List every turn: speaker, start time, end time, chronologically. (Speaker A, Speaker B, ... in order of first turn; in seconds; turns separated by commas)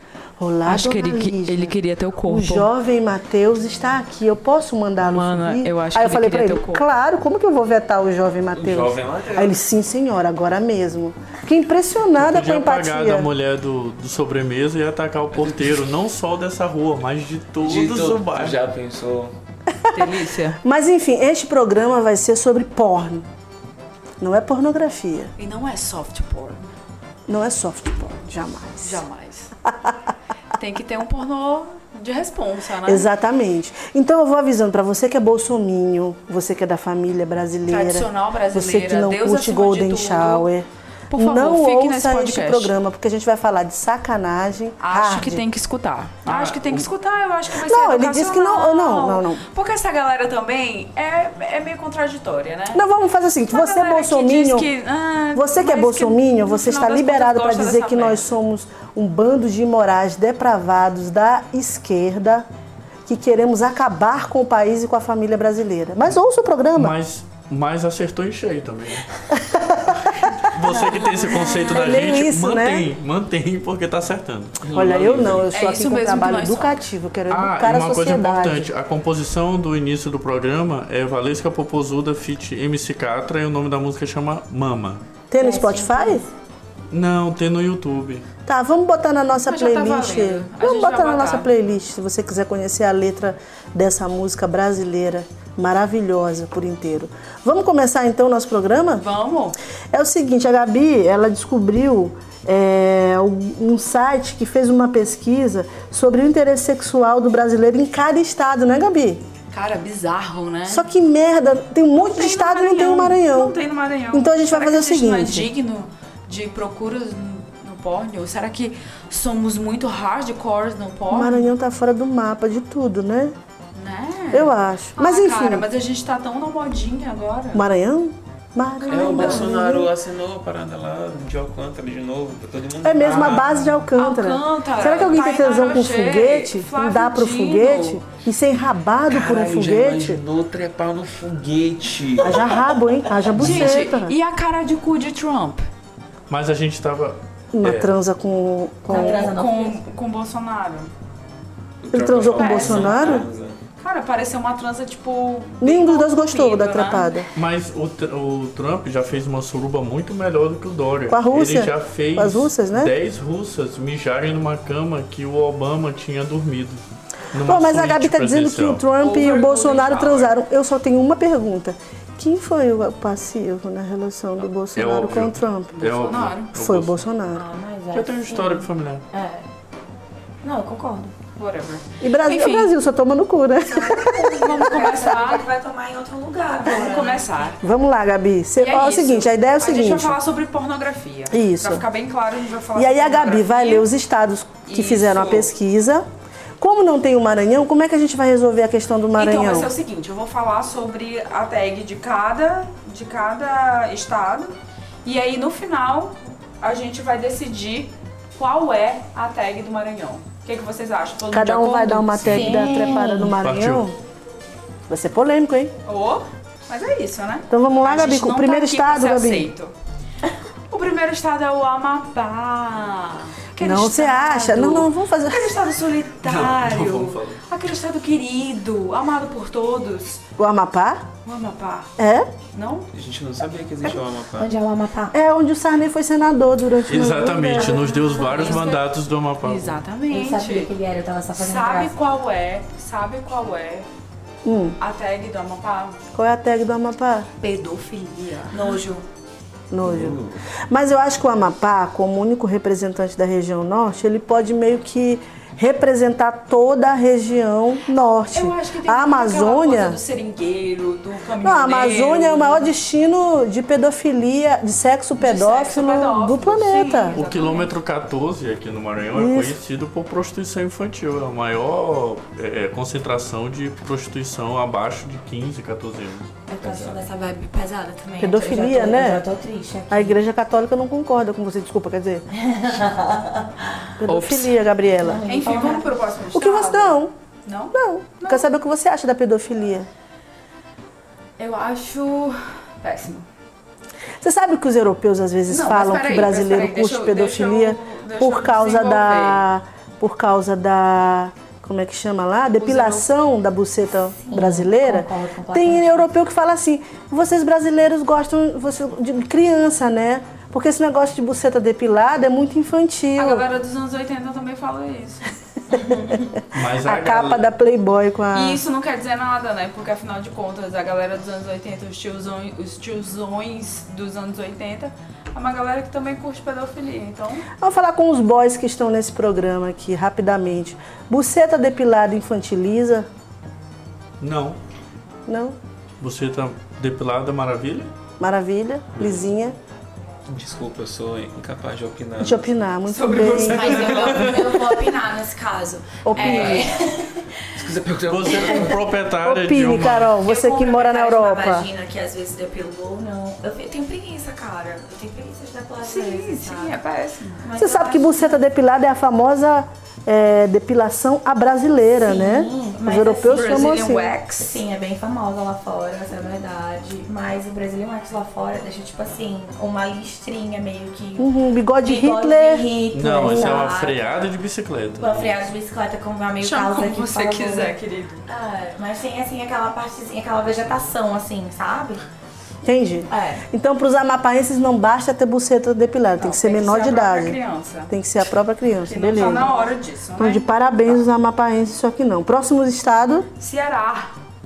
Speaker A: 0.4-13.3, Speaker B: 0.7-2.7, Speaker B: 5.0-6.8, Speaker C: 8.5-9.6, Speaker D: 12.2-18.6, Speaker C: 17.6-19.3, Speaker A: 19.8-23.2, Speaker B: 19.9-20.6, Speaker A: 24.2-25.3, Speaker B: 25.4-26.7, Speaker A: 27.3-29.0, Speaker B: 28.8-29.5, Speaker A: 29.6-30.0, Speaker B: 30.5-33.1, Speaker A: 32.8-45.4, Speaker B: 37.7-40.5, Speaker B: 41.1-42.7, Speaker B: 44.8-52.8, Speaker D: 46.2-46.9, Speaker A: 47.5-49.4, Speaker A: 52.7-54.7, Speaker B: 53.5-58.3, Speaker A: 55.3-62.5, Speaker A: 63.1-66.9, Speaker D: 66.8-69.1, Speaker A: 69.3-72.9, Speaker D: 70.3-74.7, Speaker E: 71.1-71.7, Speaker C: 74.6-75.5, Speaker A: 74.7-78.7, Speaker B: 75.5-76.8, Speaker D: 77.3-85.0, Speaker A: 85.3-86.2, Speaker E: 85.4-86.3, Speaker D: 86.9-88.2, Speaker A: 88.4-99.0, Speaker B: 89.5-91.5, Speaker B: 98.9-99.5, Speaker A: 99.9-109.2, Speaker B: 109.5-110.9, Speaker A: 110.7-113.5, Speaker B: 112.0-121.5, Speaker A: 114.1-115.5, Speaker A: 121.1-123.3, Speaker B: 123.7-127.6, Speaker A: 124.3-125.7, Speaker A: 127.5-129.9, Speaker B: 128.8-129.5, Speaker C: 128.9-133.5, Speaker A: 132.8-140.2, Speaker B: 133.9-138.0, Speaker C: 139.1-142.6, Speaker A: 142.2-144.2, Speaker B: 143.4-145.6, Speaker D: 146.3-147.9, Speaker A: 147.5-149.3, Speaker E: 148.9-149.8, Speaker B: 148.9-150.9, Speaker C: 151.8-153.6, Speaker A: 151.9-153.3, Speaker B: 152.3-153.2, Speaker B: 153.8-157.2, Speaker A: 155.6-157.3, Speaker D: 157.3-166.8, Speaker A: 161.1-162.9, Speaker D: 167.3-168.8, Speaker A: 167.3-175.8, Speaker B: 169.0-170.3, Speaker D: 174.7-177.0, Speaker B: 175.7-176.5, Speaker A: 176.5-177.4, Speaker E: 177.3-179.4, Speaker D: 177.9-179.0, Speaker E: 180.4-181.1, Speaker B: 181.4-182.7, Speaker A: 182.0-185.0, Speaker E: 183.6-187.5, Speaker B: 184.3-185.5, Speaker B: 186.7-187.6, Speaker A: 187.6-190.2, Speaker B: 188.6-193.9, Speaker A: 191.3-191.8, Speaker A: 192.7-196.0, Speaker B: 194.7-195.5, Speaker A: 196.6-199.7, Speaker B: 199.1-204.5, Speaker B: 205.0-212.7, Speaker A: 211.3-213.9, Speaker E: 212.3-213.3, Speaker D: 213.4-213.9, Speaker A: 214.9-215.7, Speaker B: 215.8-219.7, Speaker A: 217.5-219.5, Speaker B: 220.7-230.2, Speaker A: 223.6-225.6, Speaker D: 226.2-227.4, Speaker A: 230.4-231.1, Speaker B: 231.2-231.9, Speaker A: 232.0-232.3, Speaker B: 232.5-232.9, Speaker C: 232.9-234.5, Speaker E: 234.4-235.1, Speaker A: 235.1-237.9, Speaker D: 236.8-239.8, Speaker E: 237.5-238.6, Speaker B: 238.1-238.8, Speaker B: 239.4-240.7, Speaker E: 240.1-241.9, Speaker B: 241.3-243.9, Speaker A: 244.4-244.8, Speaker B: 244.8-246.0, Speaker A: 246.1-247.3, Speaker B: 247.4-248.8, Speaker E: 248.5-249.0, Speaker A: 249.7-260.0, Speaker C: 249.8-250.4, Speaker B: 258.3-262.7, Speaker A: 261.4-267.2, Speaker B: 265.2-267.7, Speaker D: 267.1-277.0, Speaker A: 269.1-269.6, Speaker E: 276.5-280.2, Speaker A: 278.2-279.2, Speaker A: 279.9-282.2, Speaker E: 282.3-283.9, Speaker A: 284.0-285.2, Speaker E: 285.0-285.9, Speaker B: 285.2-288.5, Speaker A: 286.3-287.1, Speaker A: 287.7-289.9, Speaker B: 291.4-293.2, Speaker A: 294.2-313.4, Speaker B: 295.5-299.5, Speaker B: 302.6-303.1, Speaker E: 304.2-306.1, Speaker B: 313.1-315.3, Speaker D: 316.5-317.4, Speaker A: 316.8-318.6, Speaker B: 318.3-327.5, Speaker A: 327.6-333.1, Speaker D: 334.2-334.6, Speaker A: 335.3-335.6, Speaker D: 336.0-337.9, Speaker A: 338.2-339.6, Speaker D: 338.9-339.2, Speaker C: 340.3-342.5, Speaker A: 342.2-344.2, Speaker B: 342.9-344.6, Speaker E: 343.2-347.4, Speaker C: 343.9-344.5, Speaker A: 346.0-346.6, Speaker C: 346.1-346.7, Speaker C: 347.5-348.8, Speaker D: 348.1-350.2, Speaker E: 348.3-348.7, Speaker A: 349.2-351.7, Speaker E: 350.2-356.8, Speaker B: 355.8-357.4, Speaker E: 357.4-358.4, Speaker A: 357.6-364.1, Speaker E: 362.0-371.3, Speaker B: 363.2-364.6, Speaker A: 371.2-372.6, Speaker E: 371.8-374.1, Speaker D: 372.9-375.4, Speaker A: 373.2-373.7, Speaker E: 374.9-377.7, Speaker B: 376.4-378.2, Speaker E: 378.3-382.0, Speaker A: 382.6-387.4, Speaker E: 383.1-383.4, Speaker B: 386.2-387.9, Speaker A: 387.9-389.5, Speaker B: 388.8-390.4, Speaker E: 389.4-389.6, Speaker A: 390.2-393.3, Speaker B: 393.4-394.1